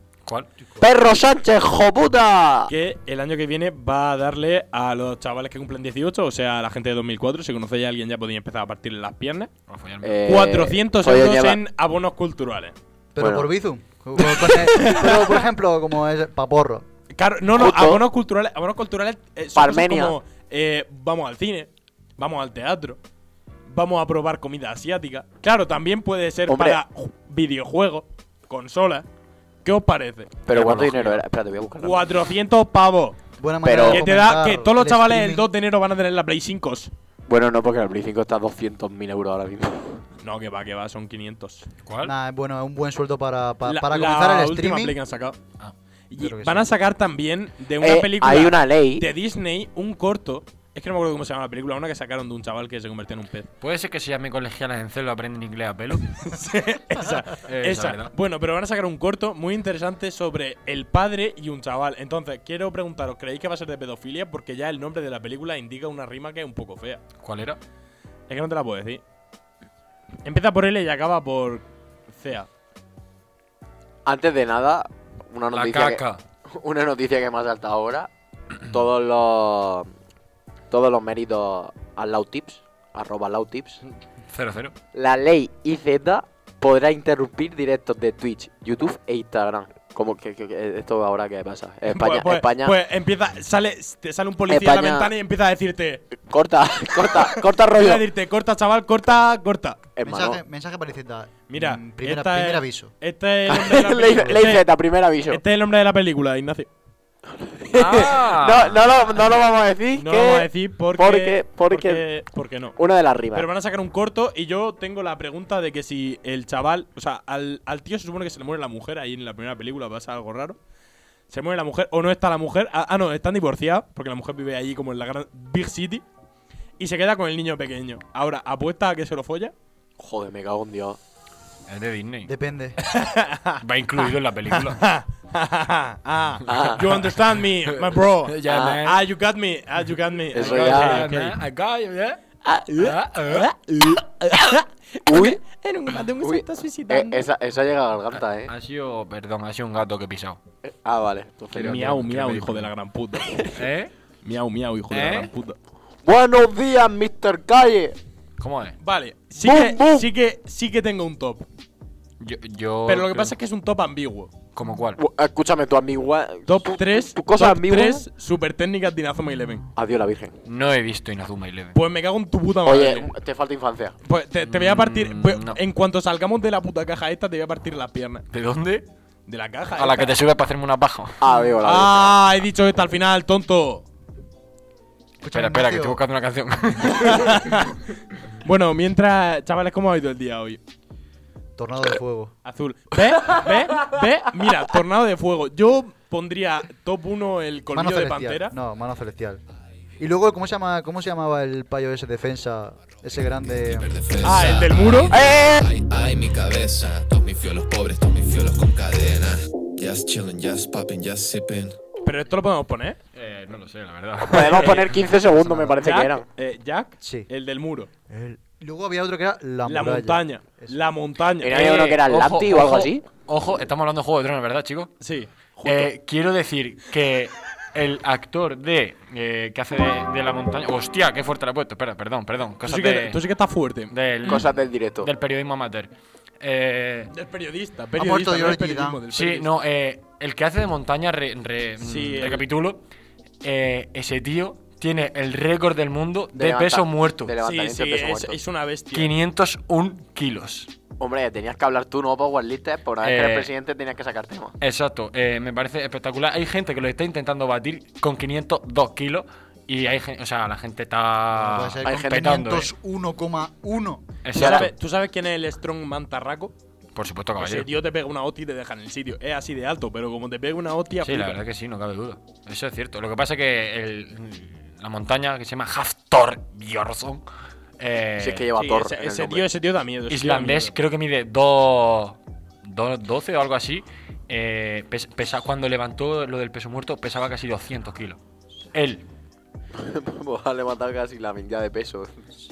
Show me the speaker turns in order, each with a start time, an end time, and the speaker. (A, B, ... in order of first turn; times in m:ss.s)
0:00.2-0:00.8 A
0:00.8-0:02.7 B
0:02.7-0:09.5 C
0:09.7-0:10.4 A
0:10.0-0:11.6 B
0:10.2-0:12.7 C
0:13.1-0:16.8 D
0:13.2-0:13.5 B
0:14.2-0:15.3 C
0:17.1-0:23.0 C
0:17.5-0:18.0 B
0:19.5-0:20.2 B
0:23.7-0:29.0 C
0:26.5-0:26.8 B
0:29.6-0:30.5 C
0:30.4-0:32.1 B
0:30.5-0:31.2 A
0:31.8-0:33.2 C
0:33.4-0:35.5 D
0:33.6-0:34.0 B
0:33.8-0:36.9 C
0:37.3-0:40.0 B
0:40.2-0:41.7 C
0:41.8-0:42.1 A
0:42.0-0:45.0 D
0:43.6-0:45.4 C
0:46.1-0:53.5 C
0:46.2-0:46.7 D
0:47.8-0:49.1 B
0:53.6-0:56.4 A
0:56.2-1:07.0 C
0:57.3-0:58.1 A
1:07.2-1:07.6 A
1:08.3-1:09.0 C
1:10.2-1:12.5 C
1:14.0-1:18.1 B
1:15.5-1:16.2 A
1:18.6-1:19.9 B
1:20.7-1:23.8 B
1:24.3-1:24.7 A
1:24.9-1:32.8 B
1:31.9-1:36.0 C
1:34.5-1:35.1 B
1:36.2-1:38.0 B
1:37.3-1:39.8 C
1:40.0-1:40.4 B
1:40.0-1:42.9 D
1:41.5-1:44.6 C
1:43.5-1:45.4 B
1:45.3-1:46.7 C
1:47.4-1:52.0 B
1:47.7-1:48.9 A
1:49.9-1:52.8 C
1:52.8-1:53.5 B
1:53.3-2:00.6 C
2:01.3-2:06.0 C
2:06.8-2:09.5 C
2:10.0-2:11.0 B
2:11.7-2:12.3 A
2:12.2-2:12.8 D
2:12.8-2:13.6 C
2:13.6-2:14.9 A
2:14.5-2:21.4 C
2:16.5-2:17.1 B
2:18.2-2:19.0 A
2:18.4-2:18.8 B
2:20.3-2:21.1 B
2:20.3-2:22.2 A
2:22.4-2:27.2 C
2:22.8-2:23.5 A
2:25.1-2:25.4 B
2:26.2-2:28.5 B
2:28.1-2:30.4 A
2:30.6-2:31.9 B
2:31.5-2:32.7 A
2:31.6-2:33.6 C
2:33.5-2:33.9 A
2:34.2-2:35.6 C
2:34.9-2:35.3 A
2:36.0-2:38.0 B
2:38.4-2:38.8 A
2:38.8-2:41.4 C
2:39.4-2:40.1 B
2:42.2-2:43.3 A
2:42.8-2:44.3 C
2:44.5-2:45.0 A
2:45.0-2:48.0 B
2:46.5-2:49.6 C
2:49.7-2:50.3 B
2:50.4-2:51.8 A
2:51.7-2:53.1 C
2:52.6-2:54.0 B
2:54.0-2:58.2 C
2:54.4-2:55.6 A
2:58.3-2:58.8 A
2:59.3-3:00.1 C
2:59.7-3:01.3 A
3:01.2-3:02.2 B
3:01.6-3:03.8 C
3:05.2-3:06.0 D
3:05.3-3:07.6 A
3:06.9-3:07.8 C
3:08.4-3:10.6 C
3:11.6-3:12.3 D
3:12.4-3:18.5 C
3:17.7-3:19.4 D
3:20.0-3:23.9 D
3:23.6-3:31.8 E
3:24.2-3:25.1 C
3:25.1-3:25.7 B
3:32.0-3:33.0 C
3:33.1-3:35.1 A
3:34.2-3:36.2 B
3:34.4-3:34.8 C
3:35.4-3:35.7 D
3:35.6-3:37.9 C
3:37.0-3:37.3 D
3:38.1-3:40.8 D
3:39.6-3:42.0 C
3:41.4-3:43.0 B
3:42.0-3:44.9 A
3:45.0-3:45.9 C
3:45.6-3:53.2 A
3:52.6-3:53.9 C
3:53.9-3:57.1 A
3:54.2-3:55.1 B
3:57.1-3:59.5 C
3:58.0-3:59.0 D
3:59.1-4:02.8 A
4:01.8-4:02.4 C
4:03.4-4:07.3 A
4:06.3-4:08.4 B
4:07.4-4:09.1 C
4:08.9-4:10.7 A
4:11.0-4:14.5 B
4:13.0-4:13.5 A
4:14.6-4:22.7 A
4:21.3-4:24.2 D
4:21.8-4:22.3 B
4:24.2-4:24.7 A
4:24.3-4:24.7 B
4:24.3-4:26.5 C
4:26.9-4:27.7 A
4:27.4-4:31.4 C
4:31.0-4:37.2 A
4:37.8-4:38.5 A
4:38.2-4:39.5 B
4:38.5-4:40.7 C
4:40.1-4:48.2 A
4:48.7-4:49.0 A
4:49.7-4:52.2 B